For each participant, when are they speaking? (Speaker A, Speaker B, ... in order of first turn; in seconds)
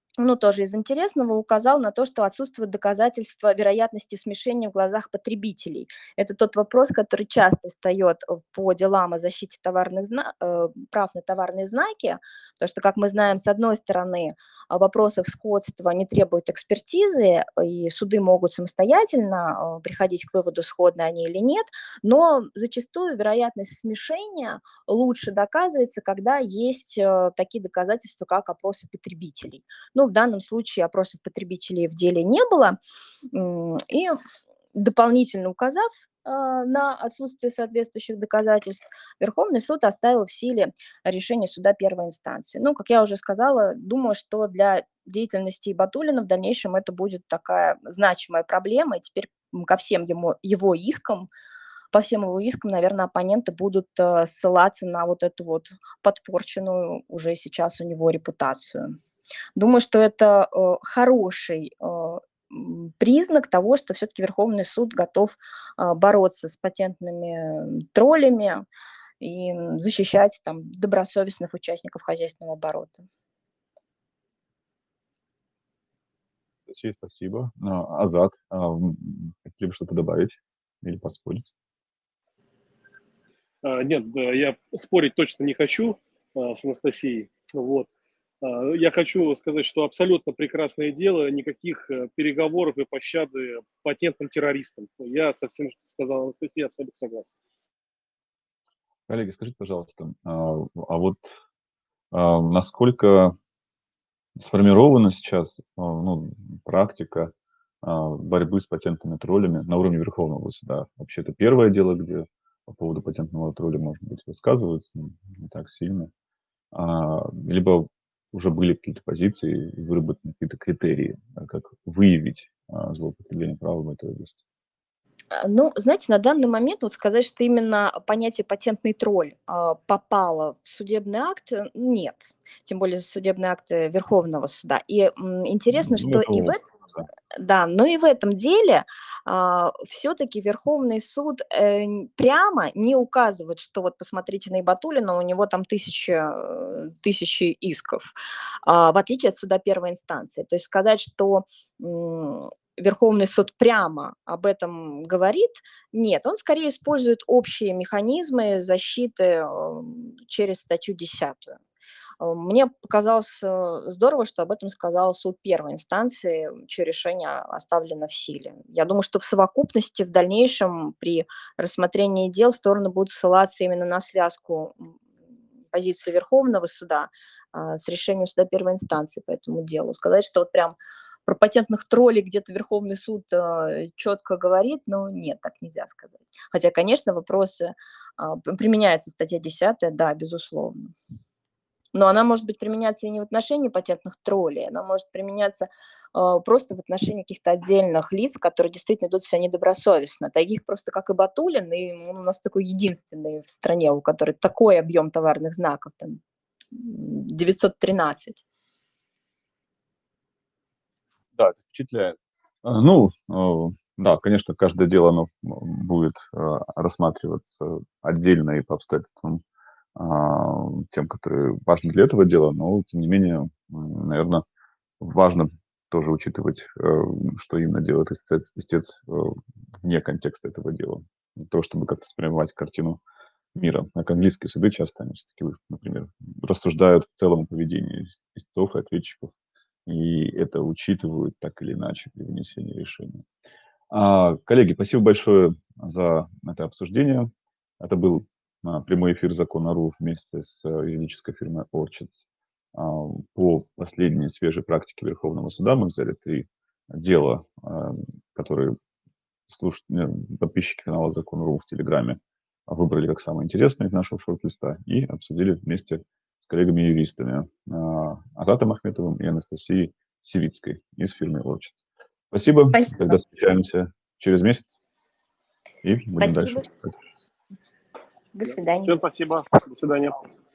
Speaker A: 0.2-32.8, 33.3-34.2, 34.7-51.3, 51.9-59.0, 59.5-68.6, 69.2-73.0, 125.3-136.6, 137.3-148.1, 148.6-161.6, 162.2-175.0, 175.7-190.9, 191.9-206.2, 206.7-208.4, 272.7-273.1, 276.1-276.7, 278.3-278.9
Speaker B: 76.7-81.5, 99.1-101.2, 102.1-103.3, 104.4-116.1, 116.7-124.4, 135.7-137.1, 211.3-219.4, 219.9-224.4, 225.0-233.0, 233.5-239.3, 239.8-243.2, 243.9-252.2, 252.7-258.8, 259.5-271.8, 272.3-274.8, 275.8-276.9
Speaker C: 83.6-87.9, 88.4-97.3, 278.4-280.4